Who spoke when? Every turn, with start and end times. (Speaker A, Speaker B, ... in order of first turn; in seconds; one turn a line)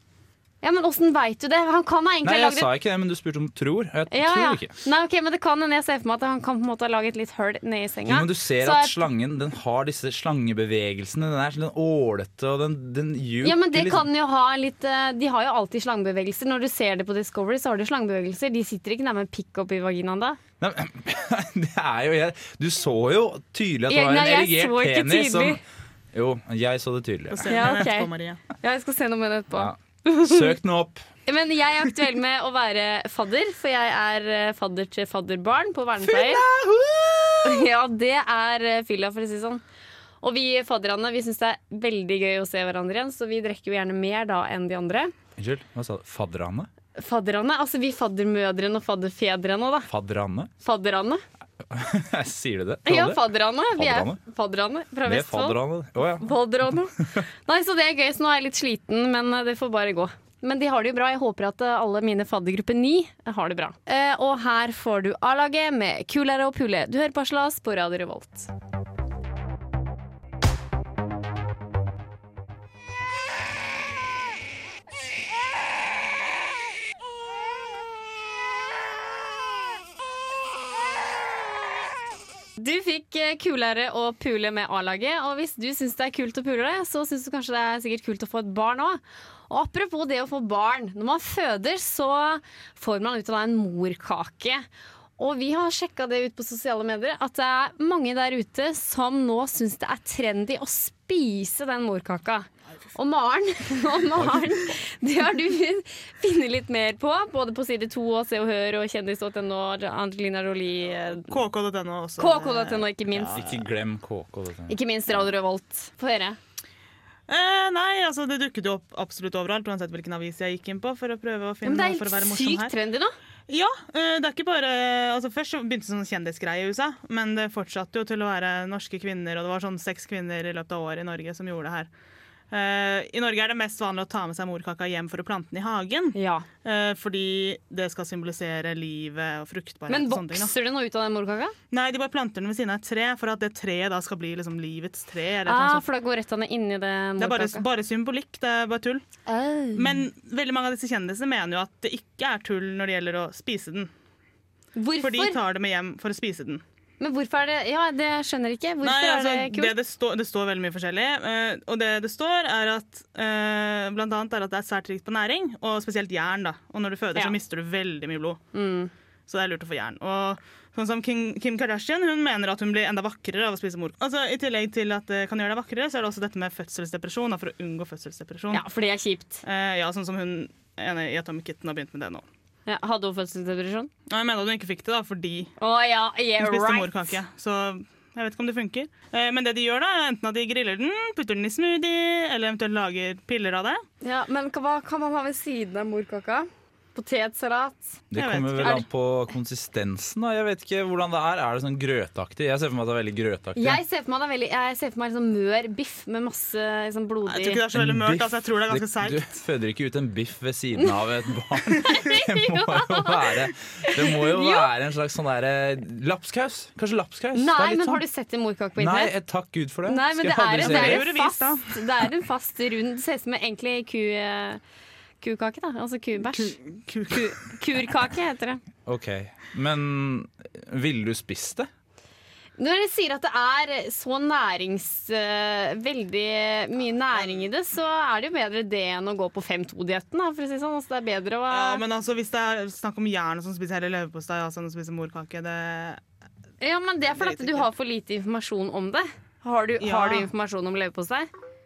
Speaker A: 0.6-2.7
Speaker B: 2.2-4.7
Speaker A: 4.1-9.0
Speaker B: 8.1-14.1
Speaker A: 13.4-20.4
Speaker B: 20.6-25.6
Speaker A: 23.9-25.6
Speaker B: 26.1-27.7
Speaker C: 27.3-28.4
Speaker A: 27.5-30.5
Speaker B: 29.5-31.0
Speaker A: 31.3-36.4
Speaker C: 36.1-37.4
Speaker A: 37.4-39.6
Speaker A: 40.2-45.1
Speaker B: 45.4-46.7
Speaker A: 47.0-49.9
Speaker B: 49.9-50.5
Speaker A: 50.6-51.2
Speaker B: 51.6-53.2
Speaker A: 52.9-55.6
Speaker B: 53.7-54.2
Speaker B: 55.0-56.4
Speaker A: 56.2-68.5
Speaker A: 82.6-94.6
Speaker A: 95.2-111.4
Speaker B: 104.2-104.5
Speaker C: 111.3-113.5
Speaker A: 112.2-113.4
Speaker B: 113.1-114.8
Speaker A: 114.7-116.4
Speaker C: 117.3-122.7
Speaker A: 121.6-123.1
Speaker C: 123.5-131.9
Speaker C: 132.5-140.5
Speaker A: 136.1-136.4
Speaker A: 139.9-141.5
Speaker C: 141.7-145.8
Speaker A: 145.4-147.6
Speaker C: 147.2-149.0
Speaker A: 149.2-150.1
Speaker C: 149.7-153.9
Speaker A: 154.8-155.4
Speaker C: 155.0-156.6
Speaker A: 157.0-159.7
Speaker C: 158.8-168.4
Speaker A: 168.5-168.9
Speaker C: 169.3-178.6
Speaker A: 178.5-179.4
Speaker C: 179.4-182.2
Speaker A: 182.7-183.9
Speaker C: 184.1-185.5
Speaker A: 185.6-187.1
Speaker C: 186.4-193.8
Speaker A: 194.0-198.0
Speaker B: 198.1-203.8
Speaker C: 198.1-198.8
Speaker A: 198.6-198.8
Speaker A: 203.6-207.6
Speaker C: 207.3-209.4
Speaker B: 207.7-218.0
Speaker A: 211.8-214.7
Speaker A: 217.3-219.1
Speaker B: 218.8-221.1
Speaker A: 219.8-224.6
Speaker C: 220.5-221.8
Speaker A: 225.2-228.6
Speaker C: 226.2-227.5
Speaker B: 228.8-231.7
Speaker A: 232.6-241.8
Speaker C: 237.2-237.4
Speaker C: 241.5-246.0
Speaker A: 246.6-251.3
Speaker C: 247.1-247.7
Speaker C: 249.8-250.3